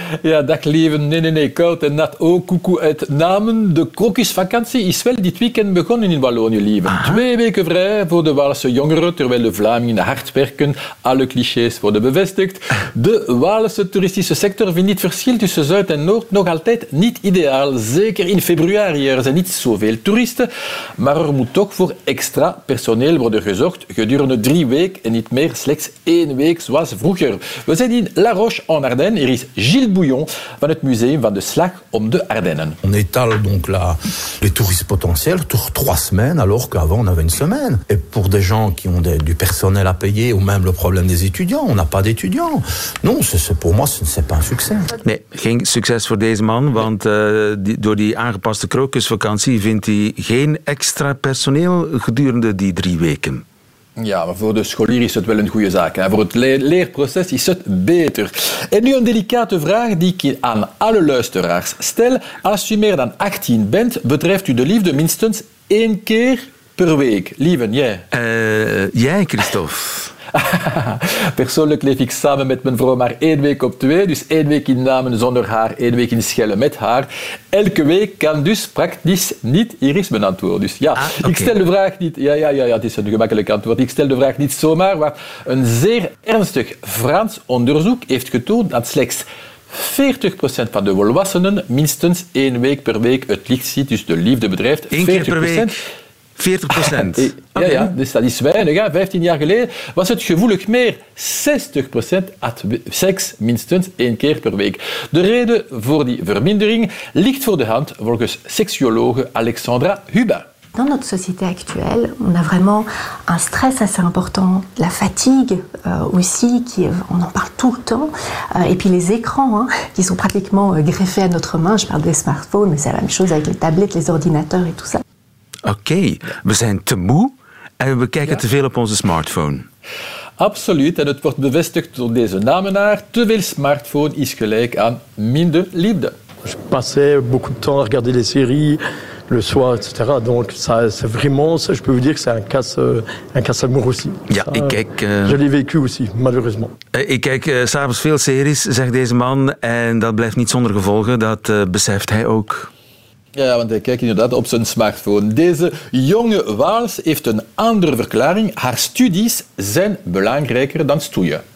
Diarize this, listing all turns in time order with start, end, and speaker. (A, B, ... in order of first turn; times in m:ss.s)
0:00.2-0:32.8 A
0:06.9-0:07.2 B
0:32.8-0:44.9 C
0:45.0-0:53.4 B
0:54.0-1:08.0 A
1:08.1-1:10.1 B
1:10.3-1:35.8 A
1:21.0-1:21.6 B
1:34.9-1:35.8 B
1:36.4-1:37.9 B
1:36.8-1:50.5 A
1:50.8-2:05.0 D
2:05.6-2:09.7 B
2:10.4-2:16.2 A
2:16.4-2:26.7 E
2:24.3-2:25.4 B
2:26.9-2:32.7 B
2:33.3-2:41.4 A